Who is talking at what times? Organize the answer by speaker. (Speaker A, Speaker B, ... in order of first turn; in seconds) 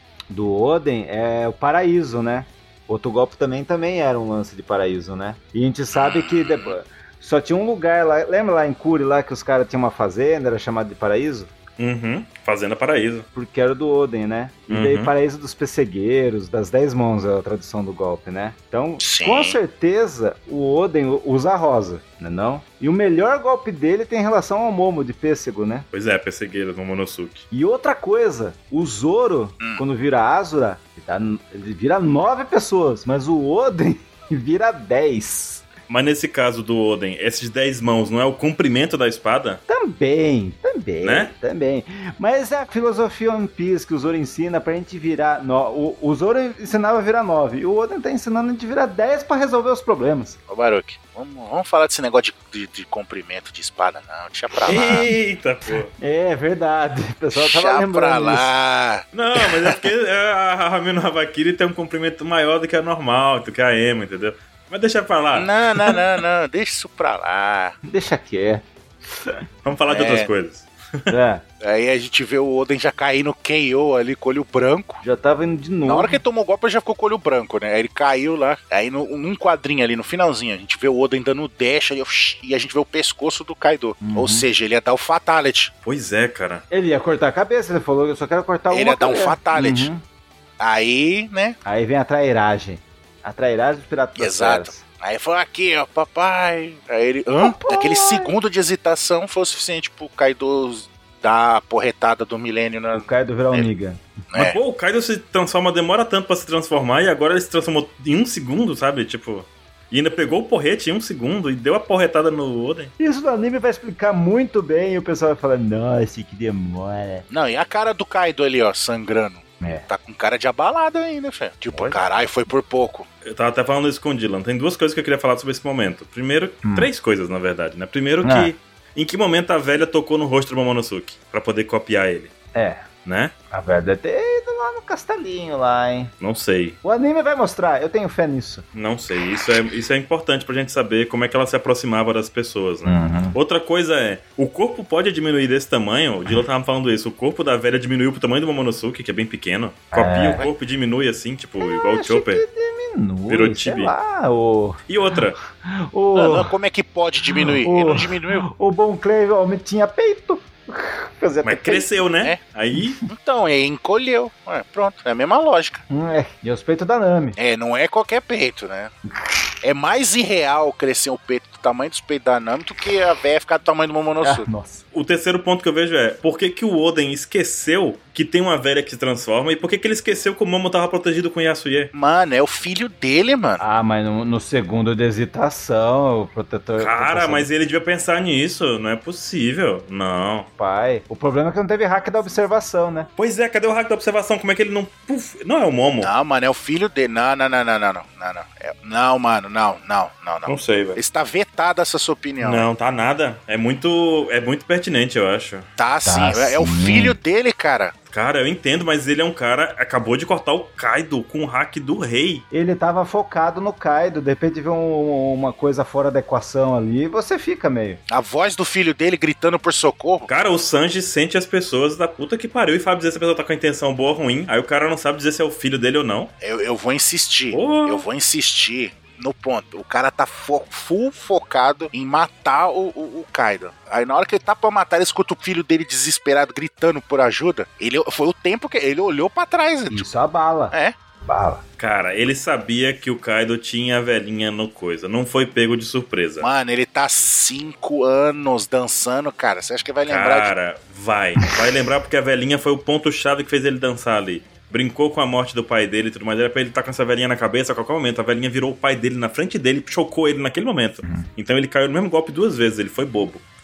Speaker A: 0.3-11.5, 13.3-25.9, 27.5-35.6, 39.7-50.4, 54.6-55.1, 56.0-58.5, 67.8-69.4, 71.1-71.4, 75.0-76.2, 84.0-84.5, 86.7-90.0, 91.7-94.8, 97.4-98.3, 102.9-104.2, 113.0-117.2, 119.6-119.9, 126.6-126.9, 128.2-128.5, 132.5-132.8, 133.5-136.1, 136.8-138.6, 142.8-143.4, 149.9-150.5, 151.6-154.8, 155.5-156.5, 157.3-162.0, 165.9-167.4, 174.2-174.8, 183.6-187.5, 190.6-193.1, 206.0-207.2, 212.5-218.0, 239.9-241.6
Speaker B: 5.9-6.8, 19.0-19.6, 50.5-55.1, 57.4-59.8, 65.3-67.8, 69.9-70.3, 71.6-75.0, 75.8-85.7, 88.7-89.9, 90.6-91.6, 94.2-103.7, 104.3-104.6, 117.3-123.1, 156.2-158.5, 163.1-165.8, 167.4-168.9, 169.6-174.5, 181.9-183.6, 196.0-202.7, 205.8-207.9, 218.1-220.3, 226.4-240.1, 246.4-250.5
Speaker C: 11.8-13.2, 14.7-15.1, 25.9-27.5, 35.9-39.6, 41.0-41.3, 54.6-55.9, 59.1-66.0, 69.6-71.1, 85.8-86.6, 104.3-112.9, 123.2-132.3, 133.0-133.3, 136.2-136.8, 138.7-152.4, 153.3-153.9, 154.9-155.4, 161.4-163.0, 174.9-181.9, 186.8-190.5, 193.2-196.1, 200.5-201.0, 202.4-205.7, 208.1-212.4, 220.3-226.3, 227.5-228.0, 241.8-246.5, 250.1-263.4